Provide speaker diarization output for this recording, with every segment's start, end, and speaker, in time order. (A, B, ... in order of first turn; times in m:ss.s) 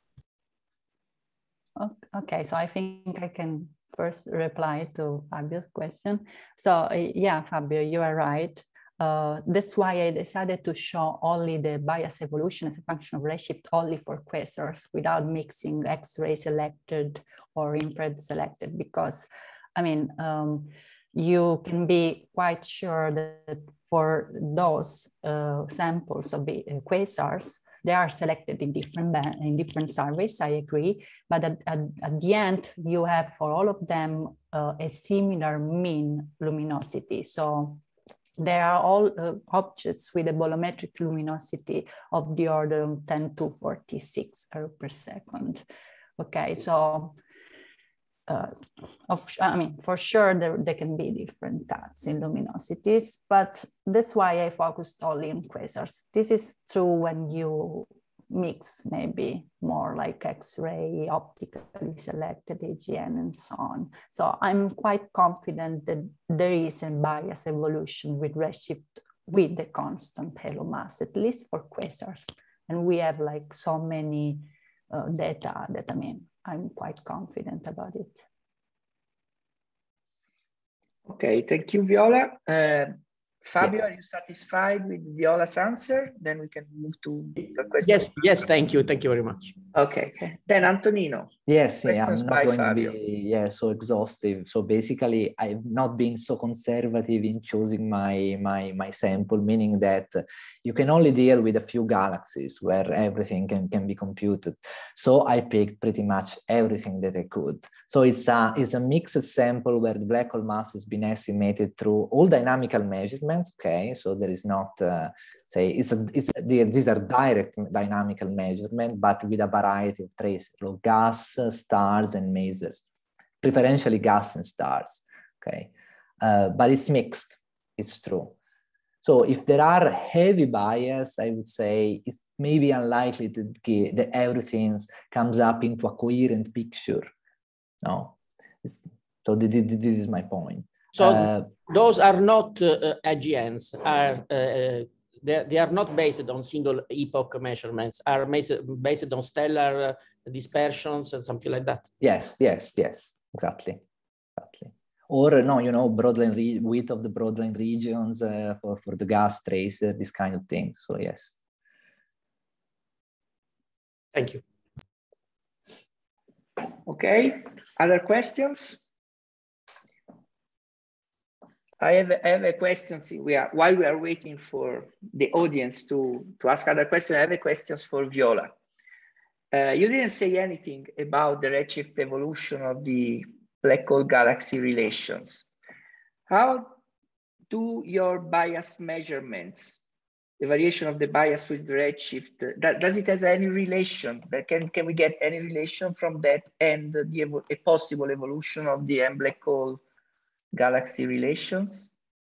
0:01.8-0:37.8 A
0:38.4-0:45.6 A
0:46.2-0:47.1 A
0:48.3-0:48.5 A
0:49.1-1:18.2 A
1:21.0-1:28.1 B
1:27.8-1:29.5 C
1:29.7-1:31.3 B
1:31.5-2:02.8 D
1:31.8-1:33.0 B
2:03.4-2:08.3 D
2:09.0-2:17.1 D
2:17.8-2:21.5 D
2:20.9-2:31.9 C
2:32.0-2:33.8 D
2:34.4-2:41.4 D
2:44.1-2:44.4 C
2:46.8-2:48.8 B
2:51.8-2:58.5 B
2:59.5-3:05.5 B
3:06.3-3:06.7 B
3:07.5-3:09.8 B
3:10.4-3:19.8 B
3:20.5-3:21.9 B